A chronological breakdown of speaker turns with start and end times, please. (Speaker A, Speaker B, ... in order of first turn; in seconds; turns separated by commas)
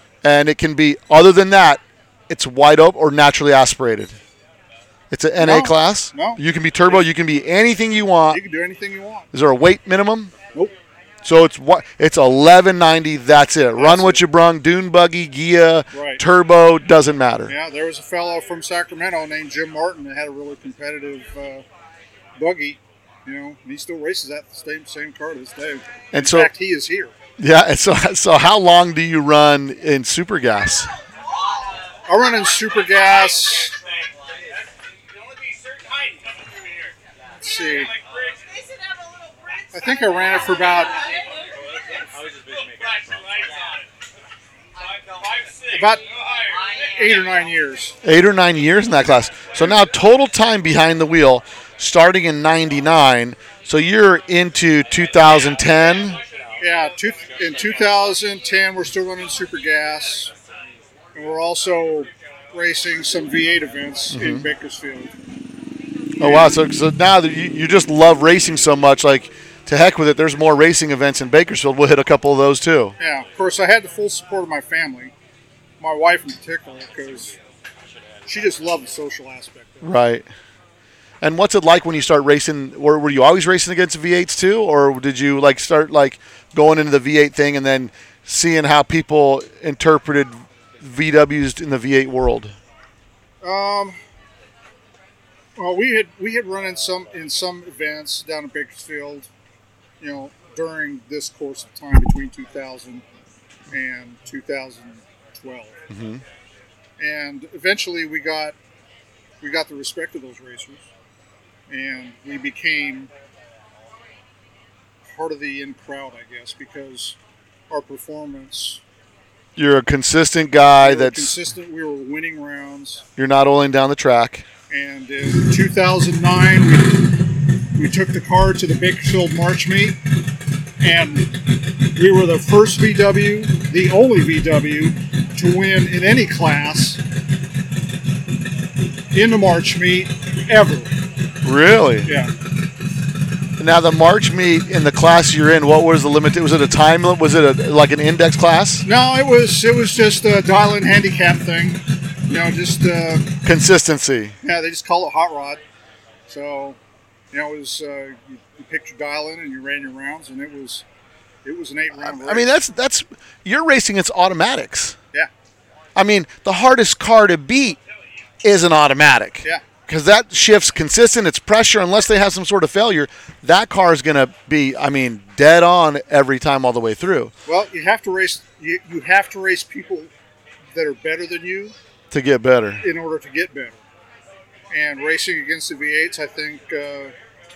Speaker A: 0.2-4.2, Speaker A: 5.1-8.4, Speaker B: 5.4-7.0, Speaker B: 8.3-9.3, Speaker A: 9.3-10.3, Speaker A: 11.2-17.5, Speaker B: 13.8-14.2, Speaker B: 15.9-16.2, Speaker B: 17.5-21.6, Speaker B: 22.4-27.1, Speaker A: 26.1-26.5, Speaker A: 27.4-30.9, Speaker B: 32.1-33.8, Speaker B: 37.4-37.9, Speaker B: 39.7-41.0, Speaker B: 45.7-46.0, Speaker B: 46.8-48.0, Speaker A: 48.0-56.2, Speaker B: 56.6-60.3, Speaker B: 61.1-65.1, Speaker A: 64.1-64.5, Speaker A: 66.2-73.0, Speaker B: 66.2-66.6, Speaker B: 73.0-75.1, Speaker B: 75.8-77.4, Speaker B: 78.3-79.9, Speaker A: 79.8-80.3, Speaker A: 81.2-92.5, Speaker B: 93.4-94.0, Speaker B: 95.6-99.3, Speaker B: 100.0-103.0, Speaker B: 103.7-105.8, Speaker A: 105.9-106.2, Speaker B: 107.0-108.6, Speaker B: 109.4-110.8, Speaker B: 111.7-113.1, Speaker B: 115.2-117.2, Speaker B: 117.7-118.8, Speaker A: 119.6-121.3, Speaker B: 120.8-123.0, Speaker A: 123.2-124.5, Speaker B: 124.7-130.2, Speaker B: 130.8-137.0, Speaker B: 139.1-141.0, Speaker A: 141.4-142.1, Speaker B: 142.1-142.3, Speaker A: 143.6-148.8, Speaker B: 148.8-153.4, Speaker A: 153.4-154.4, Speaker B: 154.4-155.6, Speaker B: 156.3-156.8, Speaker B: 157.3-160.8, Speaker B: 161.4-162.5, Speaker A: 162.0-165.0, Speaker A: 166.0-167.8, Speaker A: 168.4-177.3, Speaker B: 177.5-180.1, Speaker B: 180.7-181.8, Speaker A: 182.1-182.8, Speaker B: 182.8-183.8, Speaker B: 184.7-187.1